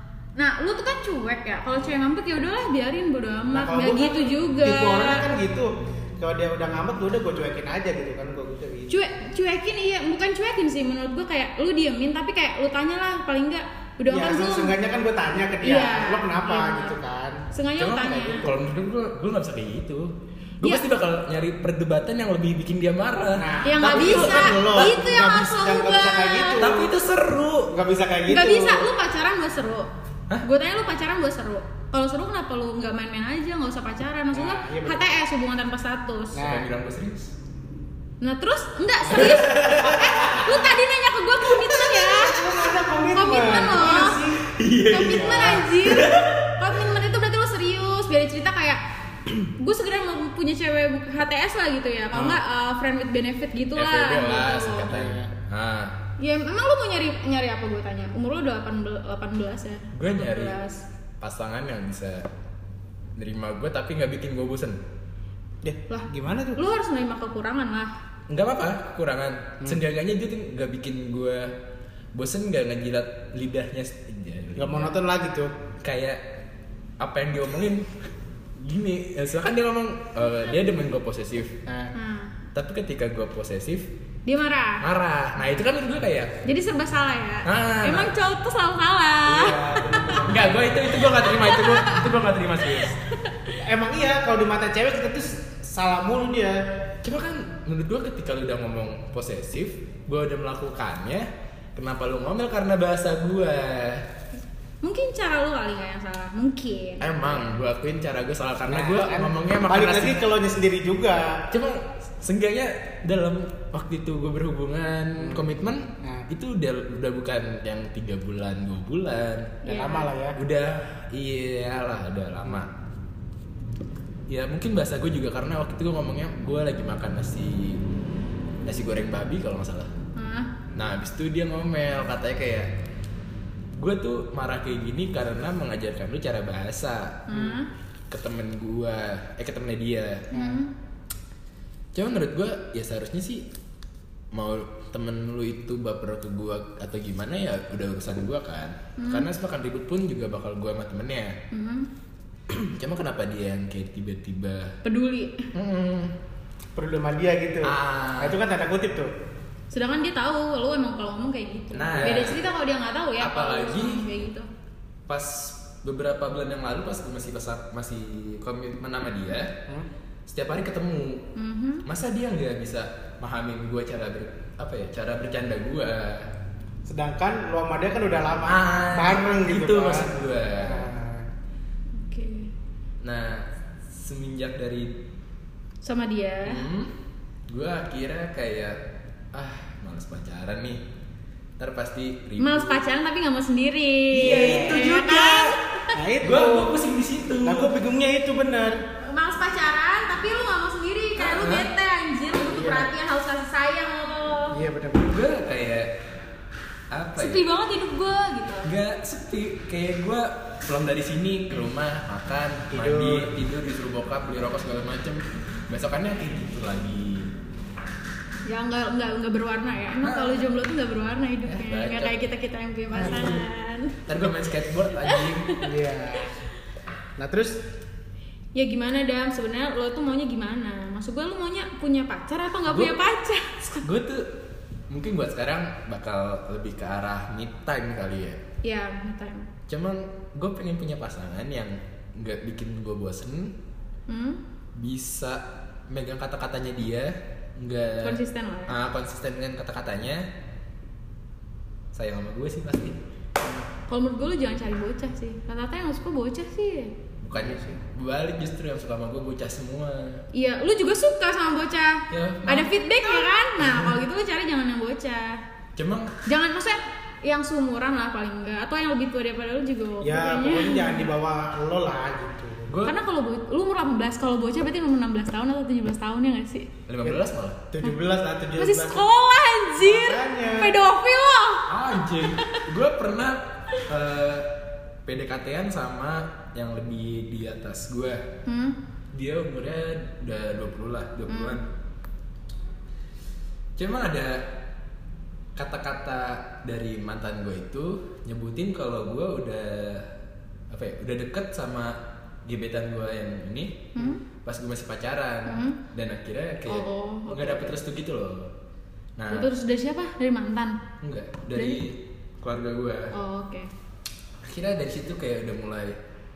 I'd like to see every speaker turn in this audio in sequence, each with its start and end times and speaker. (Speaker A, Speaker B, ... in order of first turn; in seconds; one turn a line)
Speaker A: 0.4-5.3
Speaker B: 3.5-8.9
Speaker A: 8.9-14.8
Speaker B: 14.1-17.4
Speaker A: 15.6-16.9
Speaker A: 17.5-18.5
Speaker C: 17.8-24.9
Speaker B: 23.4-26.9
Speaker A: 23.6-26.7
Speaker C: 26.6-27.7
Speaker B: 27.7-28.9
Speaker A: 28.3-29.9
Speaker A: 30.4-36.4
Speaker B: 34.3-35.0
Speaker B: 36.3-36.7
Speaker C: 36.4-37.3
Speaker A: 38.2-42.4
Speaker C: 39.1-40.6
Speaker B: 42.0-44.5
Speaker A: 43.1-44.2
Speaker C: 44.5-46.4
Speaker A: 44.9-48.8
Speaker B: 45.1-45.6
Speaker A: 49.4-54.9
Speaker C: 53.8-56.0
Speaker B: 54.9-55.3
Speaker A: 56.2-60.8
Speaker C: 59.9-60.6
Speaker C: 61.2-62.3
Speaker C: 63.2-64.8
Speaker B: 65.6-66.6
Speaker A: 65.9-67.9
Speaker C: 68.3-71.5
Speaker C: 72.1-74.9
Speaker B: 74.6-75.5
Speaker C: 75.8-76.2
Speaker C: 77.0-77.9
Speaker C: 78.6-81.6
Speaker B: 81.7-81.9
Speaker A: 81.9-82.3
Speaker C: 82.5-83.9
Speaker A: 84.3-84.8
Speaker C: 84.8-86.4
Speaker A: 86.4-90.1
Speaker C: 87.5-88.1
Speaker B: 89.2-91.1
Speaker C: 90.2-93.0
Speaker A: 91.2-92.1
Speaker B: 93.6-96.6
Speaker C: 97.0-104.1
Speaker A: 104.8-107.1
Speaker C: 107.0-110.3
Speaker B: 108.7-111.4
Speaker C: 111.5-119.6
Speaker B: 115.2-116.3
Speaker B: 119.7-120.4
Speaker A: 119.7-120.1
Speaker C: 120.4-122.7
Speaker C: 124.3-127.8
Speaker C: 128.7-129.9
Speaker A: 130.2-130.5
Speaker C: 130.8-132.7
Speaker C: 133.8-137.2
Speaker A: 137.3-137.7
Speaker B: 137.3-137.6
Speaker C: 138.1-140.3
Speaker A: 140.3-140.7
Speaker B: 140.3-140.6
Speaker C: 141.9-143.5
Speaker C: 144.3-151.3
Speaker A: 149.0-149.3
Speaker A: 151.5-151.9
Speaker C: 152.5-154.8
Speaker A: 154.8-155.5
Speaker C: 155.5-156.1
Speaker B: 156.8-159.1
Speaker C: 157.6-158.4
Speaker A: 159.7-164.5
Speaker C: 161.7-162.4
Speaker C: 163.2-164.1
Speaker C: 165.1-169.5
Speaker C: 170.3-171.3
Speaker A: 171.3-171.8
Speaker C: 171.8-176.3
Speaker B: 176.9-181.3
Speaker C: 178.4-180.9
Speaker A: 181.9-182.5
Speaker C: 183.0-185.0
Speaker A: 185.8-186.6
Speaker C: 186.4-186.9
Speaker C: 187.5-188.8
Speaker C: 189.3-190.8
Speaker C: 191.6-192.8
Speaker A: 192.4-195.9
Speaker B: 194.1-194.9
Speaker C: 194.1-195.6
Speaker B: 195.9-196.8
Speaker C: 196.2-197.8
Speaker B: 197.4-198.8
Speaker A: 199.0-204.6
Speaker C: 201.2-201.7
Speaker B: 202.5-202.9
Speaker B: 204.5-205.1
Speaker C: 205.0-205.9
Speaker C: 206.9-207.5
Speaker A: 207.2-208.7
Speaker C: 208.6-217.3
Speaker B: 212.7-213.3
Speaker A: 218.5-224.0
Speaker C: 220.0-220.6
Speaker C: 221.5-222.3
Speaker C: 222.9-223.4
Speaker C: 224.1-225.5
Speaker A: 225.1-225.6
Speaker B: 225.6-226.3
Speaker B: 227.2-227.6
Speaker A: 228.6-233.8
Speaker C: 232.7-232.9
Speaker C: 233.6-234.3
Speaker C: 234.9-238.4
Speaker A: 238.6-239.5
Speaker C: 239.7-243.6
Speaker A: 244.1-244.4
Speaker C: 244.8-250.3
Speaker A: 248.0-248.8
Speaker C: 251.9-253.0
Speaker A: 253.9-256.9
Speaker C: 257.2-260.2
Speaker B: 257.3-257.8
Speaker A: 260.3-265.4
Speaker C: 262.1-262.7
Speaker C: 263.6-264.0
Speaker C: 265.8-266.1
Speaker A: 266.3-271.1
Speaker B: 270.0-272.7
Speaker C: 272.7-273.0
Speaker A: 272.9-276.7
Speaker C: 276.9-277.6
Speaker B: 277.7-279.0
Speaker A: 278.6-282.6
Speaker B: 279.8-280.7
Speaker C: 281.7-284.5
Speaker C: 285.1-288.3
Speaker A: 288.5-288.8
Speaker C: 289.1-291.7
Speaker A: 291.3-291.6
Speaker C: 293.8-294.5
Speaker C: 295.6-300.1
Speaker C: 300.7-303.9
Speaker A: 303.9-304.2
Speaker C: 304.4-308.5
Speaker A: 305.5-305.8
Speaker A: 306.7-307.8
Speaker C: 309.2-309.5
Speaker A: 309.3-310.8
Speaker C: 311.0-313.1
Speaker A: 311.6-311.8
Speaker A: 313.1-313.7
Speaker C: 314.4-316.0